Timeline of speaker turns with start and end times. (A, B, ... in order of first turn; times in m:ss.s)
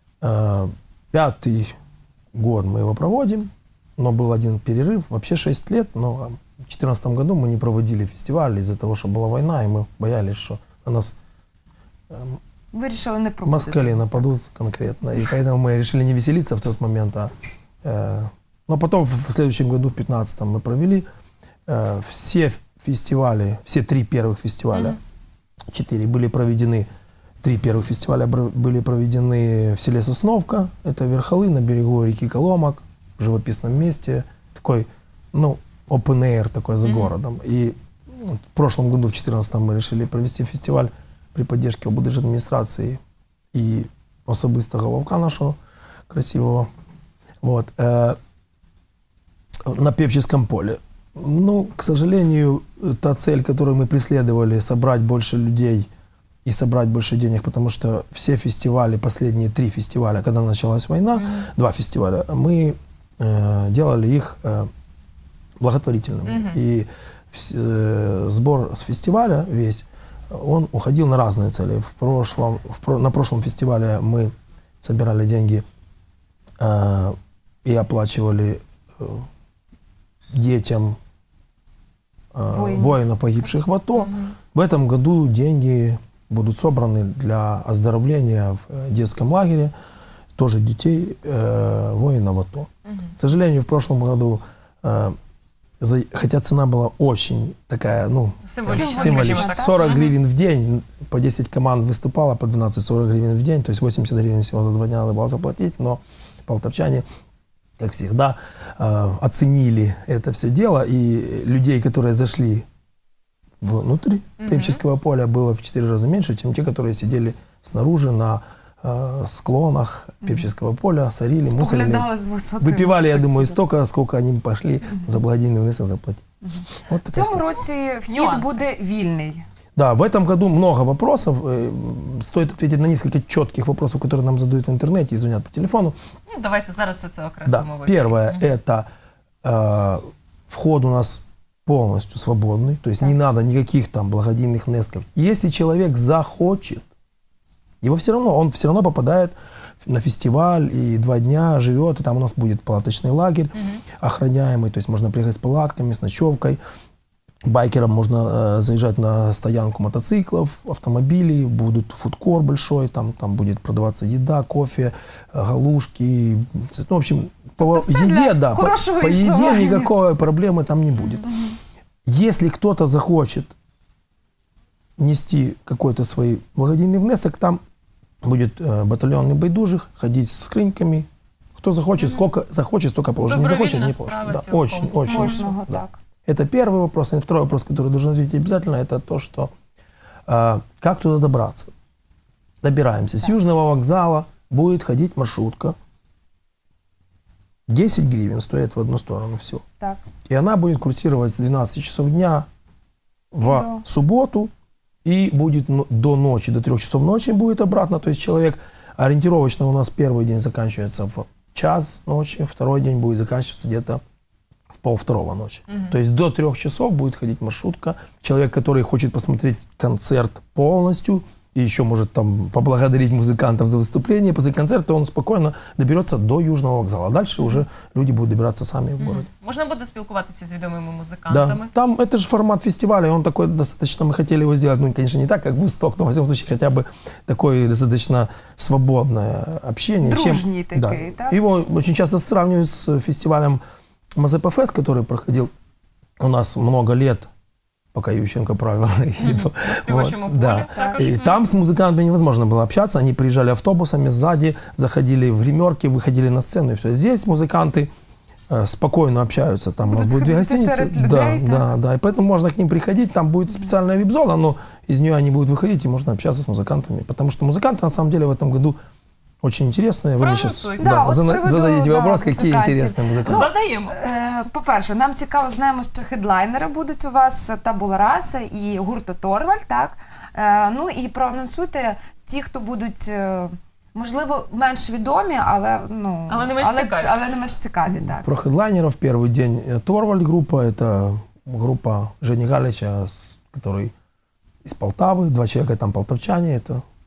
0:00.2-0:01.7 A
0:02.3-0:11.2 A
0:12.1-0:12.4 A
0:12.7-0:14.3 B
0:13.4-0:17.3 A
0:17.8-0:21.1 A
0:21.7-0:25.0 A
0:24.7-0:25.0 C
0:25.7-0:26.9 A
0:27.4-0:43.0 A
0:36.8-0:37.2 C
0:43.5-0:45.6 A
0:46.1-0:46.7 A
0:47.4-0:48.2 A
0:49.7-0:55.9 A
0:56.4-1:04.7 A
1:01.2-1:01.5 C
1:05.6-1:15.6 A
1:06.3-1:06.6 C
1:16.6-1:19.3 A
1:20.3-1:21.0 A
1:22.3-1:29.7 A
1:22.5-1:23.0 B
1:24.0-1:24.4 C
1:30.4-1:35.2 A
1:32.9-1:33.1 C
1:35.8-1:47.0 A
1:38.5-1:40.2 C
1:38.7-1:39.8 B
1:47.8-1:52.6 A
1:53.6-2:02.1 A
1:54.4-1:54.8 C
2:01.4-2:03.6 B
2:02.6-2:07.6 A
2:07.1-2:09.4 B
2:08.1-2:08.6 C
2:09.8-2:16.0 A
2:16.3-2:18.5 C
2:17.5-2:18.9 A
2:19.4-2:26.8 A
2:27.8-2:36.6 A
2:33.6-2:33.8 C
2:37.4-2:51.3 A
2:47.6-2:49.9 B
2:51.2-2:51.6 B
2:52.1-2:53.5 A
2:55.0-2:57.6 A
2:58.2-3:09.5 A
3:02.0-3:02.2 C
3:03.2-3:05.5 C
3:05.1-3:06.0 B
3:10.3-3:11.7 A
3:12.6-3:15.7 A
3:17.7-3:19.6 A
3:20.3-3:22.5 A
3:23.3-3:24.5 A
3:23.4-3:23.8 B
3:25.0-3:34.0 A
3:34.7-3:49.3 A
3:35.7-3:36.0 C
3:49.0-3:51.7 C
3:51.3-4:03.6 A
4:00.0-4:01.4 B
4:04.2-4:05.5 A
4:06.2-4:07.3 A
4:07.9-4:17.9 A
4:09.2-4:11.4 C
4:10.8-4:11.0 B
4:18.5-4:28.8 A
4:19.8-4:21.7 B
4:29.4-4:33.5 A
4:30.2-4:30.9 C
4:30.8-4:48.3 B
4:33.2-4:34.0 C
4:46.3-4:47.2 C
4:47.9-4:53.9 A
4:54.6-4:56.8 A